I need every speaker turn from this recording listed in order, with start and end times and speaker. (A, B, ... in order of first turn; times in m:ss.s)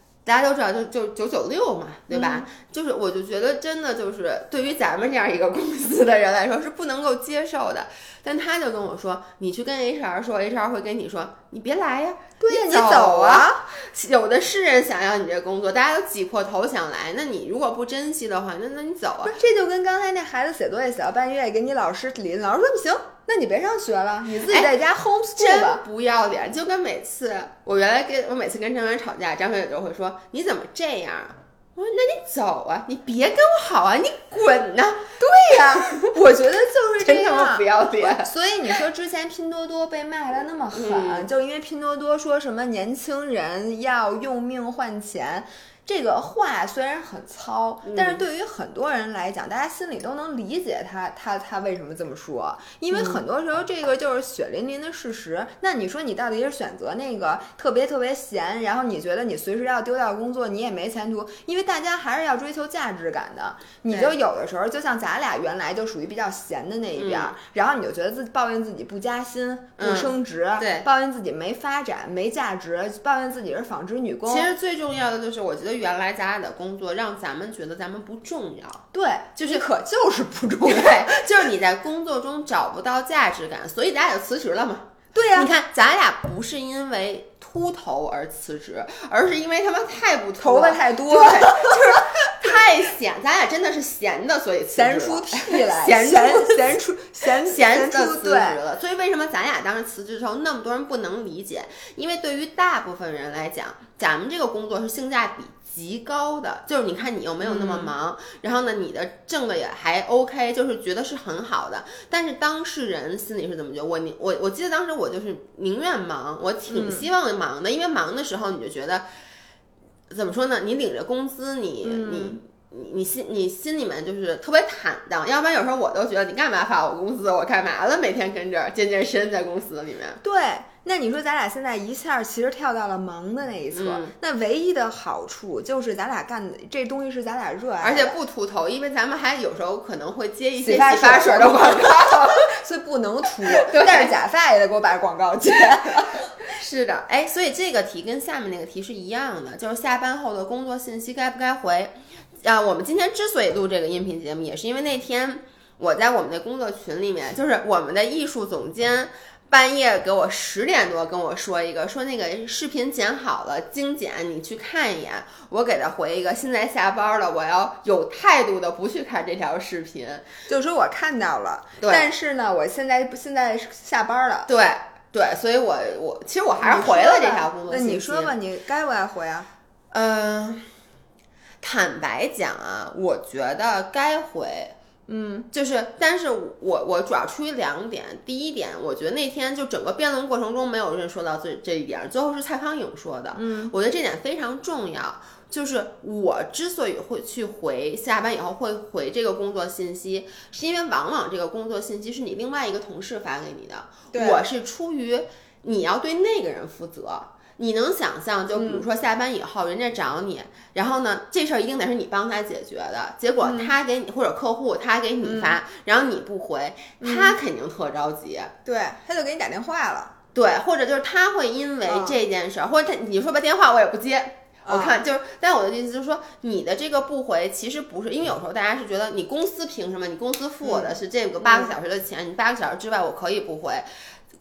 0:00.2-0:19.3 A
0:02.1-0:02.4 B
0:12.4-0:13.6 B
0:19.2-0:25.8 B
0:24.5-0:24.7 A
0:25.4-0:35.0 A
0:35.2-1:14.5 B
0:35.7-0:36.1 A
0:37.0-0:38.3 A
0:40.7-0:41.3 A
0:47.8-0:48.2 A
0:52.9-0:53.2 A
1:07.0-1:07.3 A
1:09.8-1:10.9 A
1:14.3-1:18.8 A
1:18.9-1:21.3 B
1:19.4-1:19.6 A
1:20.6-1:59.0 A
1:25.1-1:25.5 B
1:30.4-1:32.5 B
1:34.7-1:38.6 B
1:47.4-1:47.9 B
1:56.7-1:57.1 B
2:00.1-2:10.2 A
2:01.8-2:02.4 B
2:10.2-2:18.2 B
2:13.7-2:14.1 A
2:17.8-2:22.5 A
2:20.6-2:26.3 B
2:23.5-2:24.1 A
2:26.4-2:50.2 A
2:50.5-2:54.5 B
2:51.8-2:52.1 A
2:54.5-2:58.3 A
2:56.6-2:59.5 B
2:59.9-3:00.7 A
3:01.6-3:04.7 A
3:05.1-3:05.5 B
3:05.5-3:38.5 A
3:13.3-3:13.7 B
3:24.1-3:24.4 B
3:28.5-3:28.8 B
3:33.4-3:33.7 B
3:35.2-3:35.6 B
3:37.0-3:37.4 B
3:38.6-3:40.1 B
3:40.3-3:53.8 A
3:41.9-3:42.2 B
3:44.6-3:45.0 B
3:50.6-3:51.7 B